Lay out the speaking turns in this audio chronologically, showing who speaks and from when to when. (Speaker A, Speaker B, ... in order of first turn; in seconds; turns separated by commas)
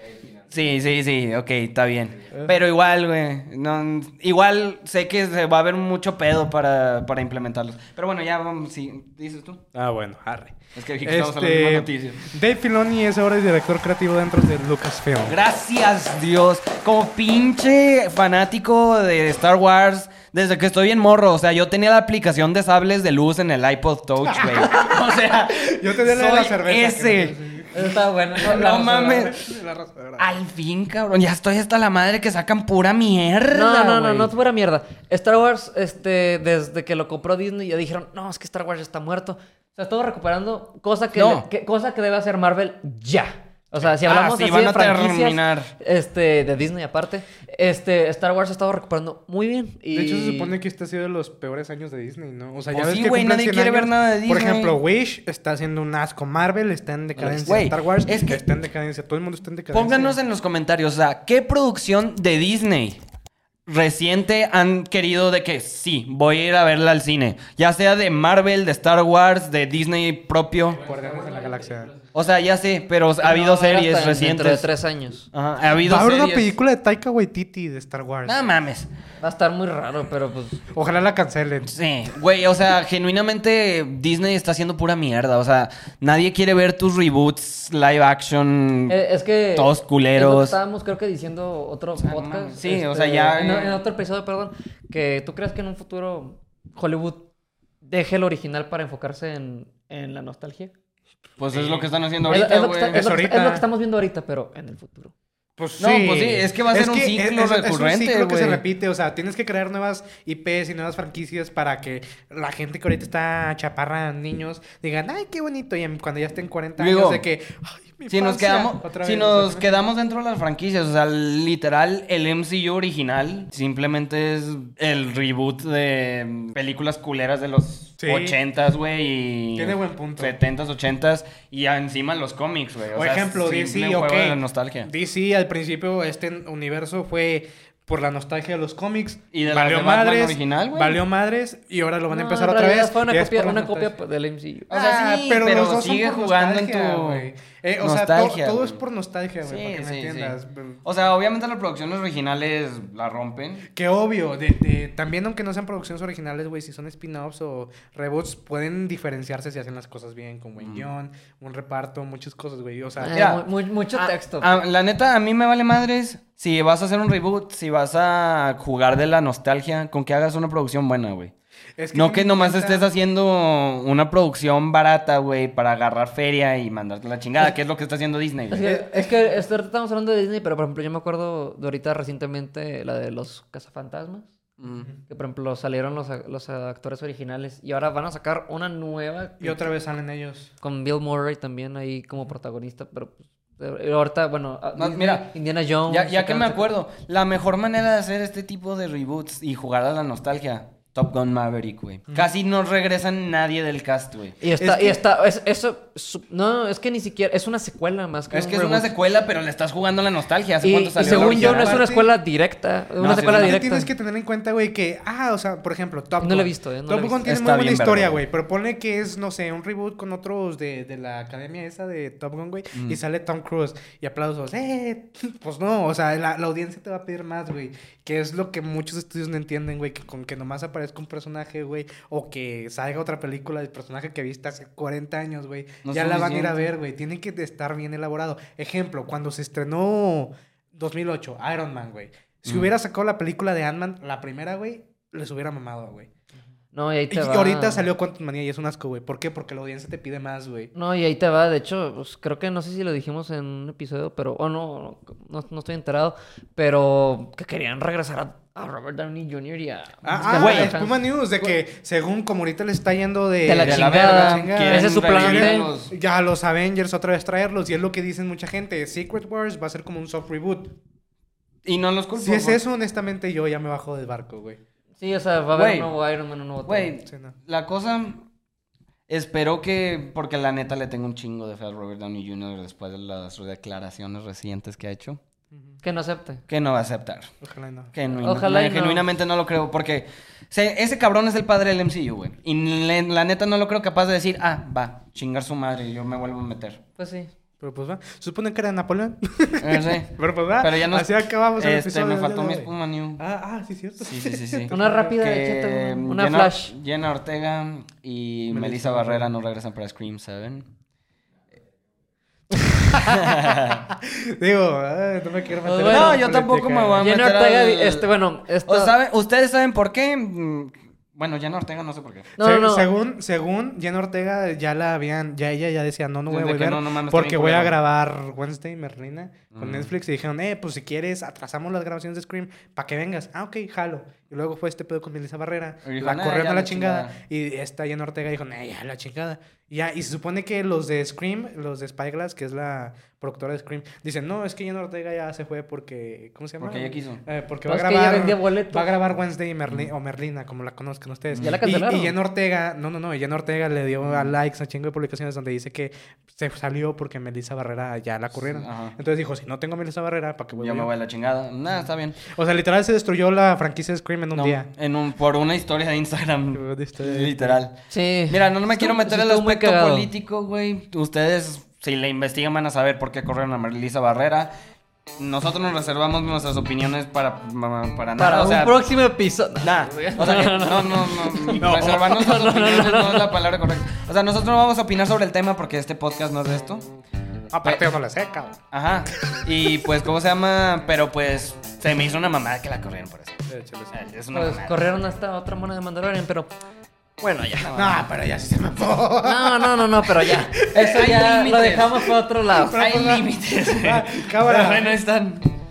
Speaker A: 0.5-9.6, Speaker B: 9.7-15.4, Speaker A: 10.7-12.2, Speaker A: 15.3-27.4, Speaker B: 24.2-30.3, Speaker C: 27.7-29.3, Speaker A: 28.4-29.4, Speaker A: 30.2-34.3, Speaker C: 33.5-50.5, Speaker A: 41.1-41.4, Speaker A: 44.0-45.7, Speaker B: 49.9-60.2, Speaker A: 52.7-54.8, Speaker A: 57.2-58.4, Speaker A: 59.7-63.0, Speaker A: 63.6-70.8, Speaker B: 70.8-71.9, Speaker A: 72.1-74.7, Speaker C: 73.2-75.3, Speaker A: 75.3-76.5, Speaker B: 75.7-78.4, Speaker A: 78.2-78.9, Speaker C: 79.2-80.6, Speaker B: 80.7-81.7, Speaker A: 81.7-89.0, Speaker C: 88.9-97.3, Speaker A: 89.5-90.6, Speaker A: 92.0-93.8, Speaker C: 97.8-100.7, Speaker A: 101.4-103.0, Speaker B: 101.5-101.9, Speaker C: 102.3-105.1, Speaker B: 102.9-103.6, Speaker B: 105.6-119.8, Speaker A: 105.8-108.6, Speaker A: 116.8-117.2, Speaker A: 118.1-134.9, Speaker B: 128.0-128.4, Speaker B: 129.6-130.4, Speaker B: 132.9-143.9, Speaker A: 139.3-141.0, Speaker C: 142.1-144.7, Speaker A: 144.7-147.3, Speaker B: 144.7-150.8, Speaker A: 147.8-148.8, Speaker A: 149.4-153.7, Speaker B: 153.7-163.2, Speaker A: 160.6-160.8, Speaker C: 163.0-164.5, Speaker A: 163.1-171.3, Speaker B: 171.8-172.8, Speaker A: 171.9-178.6, Speaker C: 178.5-184.3, Speaker B: 178.6-179.1, Speaker A: 184.6-184.9, Speaker C: 185.1-189.7, Speaker B: 189.4-190.5, Speaker C: 190.6-196.7, Speaker A: 194.8-195.3, Speaker A: 195.9-204.4, Speaker C: 204.4-208.9, Speaker B: 204.6-205.0, Speaker A: 208.3-211.8, Speaker C: 210.6-213.9, Speaker B: 211.0-212.1, Speaker A: 213.0-213.6, Speaker B: 213.1-246.1, Speaker C: 216.2-217.3, Speaker A: 217.2-218.2, Speaker A: 235.8-236.6, Speaker C: 246.7-247.8, Speaker B: 247.1-250.7, Speaker C: 250.7-261.0, Speaker B: 260.0-270.8, Speaker A: 260.3-260.8, Speaker C: 263.4-265.7, Speaker A: 263.6-265.9, Speaker A: 271.6-272.6, Speaker B: 272.2-274.6, Speaker C: 275.0-276.9, Speaker A: 275.5-275.9, Speaker A: 276.6-278.2, Speaker B: 277.1-277.3, Speaker A: 279.1-285.2, Speaker B: 285.5-285.8, Speaker C: 285.8-286.4, Speaker A: 286.5-287.3, Speaker B: 287.4-287.9, Speaker A: 287.9-296.8, Speaker C: 288.2-289.0, Speaker C: 297.0-297.3, Speaker B: 297.6-305.2, Speaker A: 299.6-303.2, Speaker A: 304.0-310.7, Speaker C: 304.7-306.7, Speaker B: 308.5-309.3, Speaker B: 312.7-317.1, Speaker A: 313.0-313.8, Speaker C: 315.6-316.2, Speaker A: 315.8-318.1, Speaker C: 317.0-318.9, Speaker A: 318.6-322.3, Speaker C: 322.4-322.9, Speaker B: 322.4-360.9, Speaker A: 326.3-327.7, Speaker A: 329.5-329.9, Speaker A: 335.8-337.1, Speaker A: 346.6-347.2, Speaker C: 347.7-348.9, Speaker C: 351.4-352.1, Speaker A: 354.0-354.3, Speaker A: 358.5-358.9, Speaker A: 360.6-362.2, Speaker B: 362.2-364.7, Speaker A: 364.3-367.7, Speaker B: 366.5-367.6, Speaker C: 367.9-370.1, Speaker A: 368.3-374.5, Speaker A: 375.2-378.8, Speaker C: 378.2-383.4, Speaker A: 379.6-386.8, Speaker B: 381.6-382.1, Speaker B: 387.5-388.6, Speaker A: 388.7-394.9, Speaker B: 393.5-393.9, Speaker C: 394.3-396.5, Speaker C: 397.2-398.0, Speaker A: 397.6-397.9, Speaker B: 397.7-400.6, Speaker C: 399.2-402.8, Speaker A: 400.7-402.1, Speaker B: 402.5-404.9, Speaker A: 402.8-405.5